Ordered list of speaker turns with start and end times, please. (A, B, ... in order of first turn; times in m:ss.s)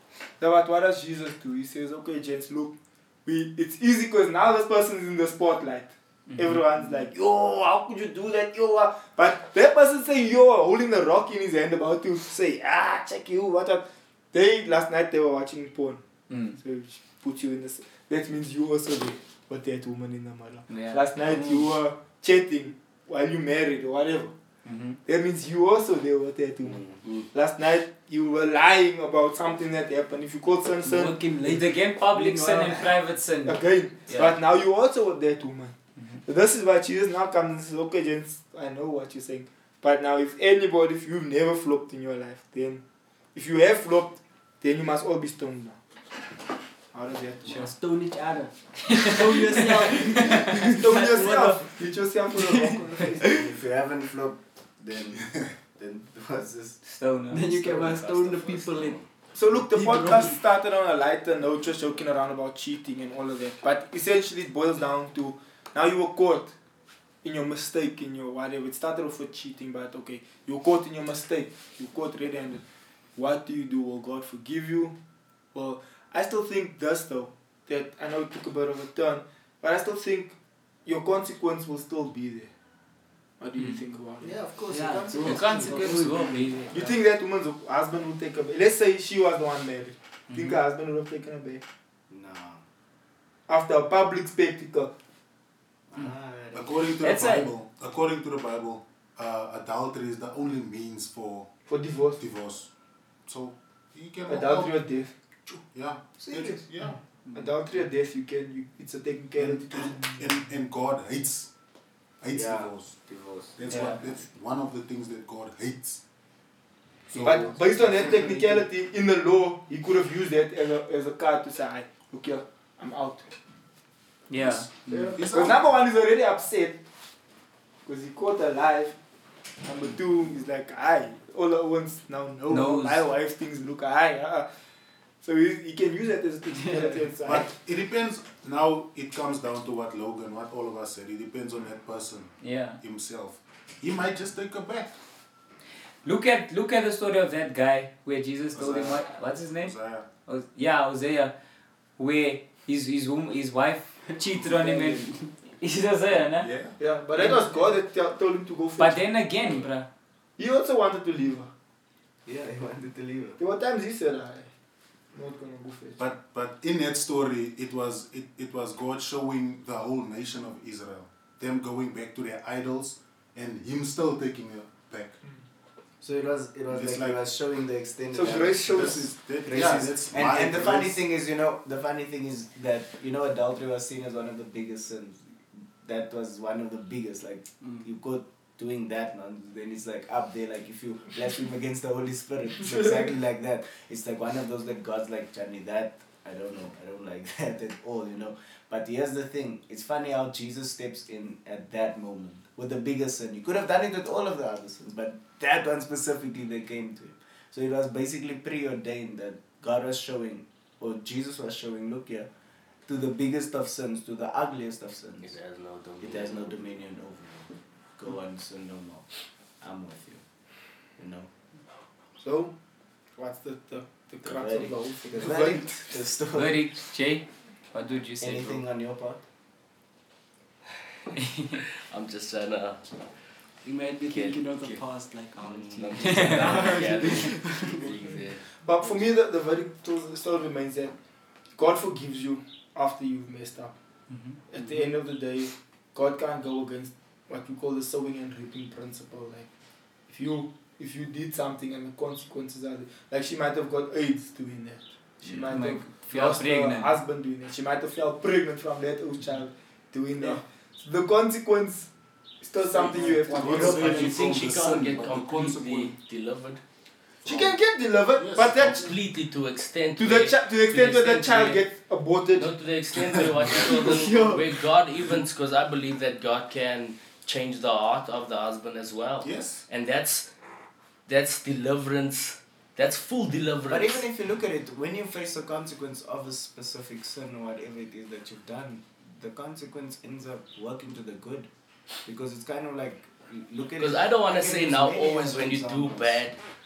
0:00.4-0:16.0 A
0:06.3-0:06.6 B
0:16.3-0:16.6 B
0:16.6-0:24.3 A
0:20.7-0:21.0 B
0:24.6-0:25.0 B
0:25.1-0:31.2 A
0:30.8-0:32.9 C
0:31.4-0:34.3 B
0:33.4-0:42.8 A
0:43.3-0:45.8 A
0:46.9-0:47.6 A
0:47.5-0:51.8 C
0:48.9-0:50.6 B
0:50.6-0:53.2 A
0:52.3-0:53.4 C
0:53.2-0:56.8 D
0:56.8-0:57.5 B
0:57.3-0:59.0 C
0:57.4-0:59.0 E
0:59.4-1:06.5 A
0:59.5-1:00.4 C
1:07.2-1:12.6 A
1:13.2-1:14.9 A
1:15.5-1:22.5 A
1:23.4-1:24.4 A
1:24.2-1:26.1 D
1:24.7-1:26.7 C
1:25.1-1:26.9 B
1:26.7-1:31.6 A
1:30.3-1:30.6 B
1:32.1-1:32.6 D
1:33.5-1:34.9 A
1:35.9-1:36.8 D
1:36.5-1:41.5 F
1:37.0-1:37.5 B
1:41.7-1:42.2 A
1:42.2-1:42.7 F
1:43.3-1:44.8 F
1:44.3-1:45.1 A
1:45.5-1:47.0 F
1:46.2-1:46.5 D
1:47.3-1:50.1 A
1:49.4-1:51.5 F
1:52.2-1:53.0 F
1:52.3-1:53.6 D
1:53.6-1:56.0 F
1:53.7-1:54.1 B
1:57.1-1:58.0 F
1:57.1-1:58.3 D
1:57.2-2:03.3 A
2:04.3-2:04.7 B
2:04.4-2:05.7 F
2:04.9-2:06.8 A
2:07.9-2:09.0 A
2:09.6-2:14.5 A
2:12.5-2:13.0 B
2:15.2-2:17.5 A
2:17.2-2:24.9 F
2:22.4-2:22.8 B
2:26.0-2:29.7 B
2:28.5-2:29.0 F
2:29.6-2:30.1 F
2:30.2-2:31.3 B
2:32.0-2:35.1 B
2:34.1-2:35.3 C
2:35.6-2:36.5 B
2:36.4-2:36.8 F
2:36.8-2:39.0 A
2:38.8-2:39.9 B
2:40.4-2:41.5 A
2:42.3-2:43.4 D
2:43.4-2:44.5 A
2:45.1-2:46.1 A
2:46.0-2:55.2 F
2:56.0-3:32.3 D
2:56.7-2:57.2 F
2:58.1-2:59.1 A
2:58.7-3:01.0 F
3:32.9-3:35.3 D
3:35.2-3:36.7 E
3:36.0-3:39.0 D
3:39.6-3:40.2 D
3:41.0-3:41.3 D
3:42.2-3:42.5 A
3:43.2-3:45.9 A
3:44.2-3:46.6 D
3:46.3-3:48.6 B
3:48.2-3:49.2 D
3:51.1-3:51.6 B
3:51.9-3:52.8 E
3:53.6-3:58.0 C
3:54.1-3:54.8 E
3:55.4-3:59.0 E
3:56.0-3:56.7 B
3:58.6-4:00.9 A
4:01.6-4:03.7 A
4:04.1-4:04.4 B
4:04.5-4:09.5 A
4:10.1-4:21.9 A
4:15.5-4:17.0 B
4:22.4-4:24.3 A
4:22.6-4:25.9 F
4:23.4-4:26.6 E
4:23.9-4:24.5 C
4:27.2-4:28.9 A
4:27.2-4:27.6 F
4:28.2-4:28.7 F
4:28.4-4:31.6 E
4:30.0-4:32.5 A
4:32.4-4:40.3 E
4:33.0-4:33.6 F
4:33.6-4:34.6 C
4:39.2-4:39.6 F
4:41.1-4:44.0 E
4:43.7-4:51.5 D
4:52.1-4:56.2 D
4:53.8-4:56.4 E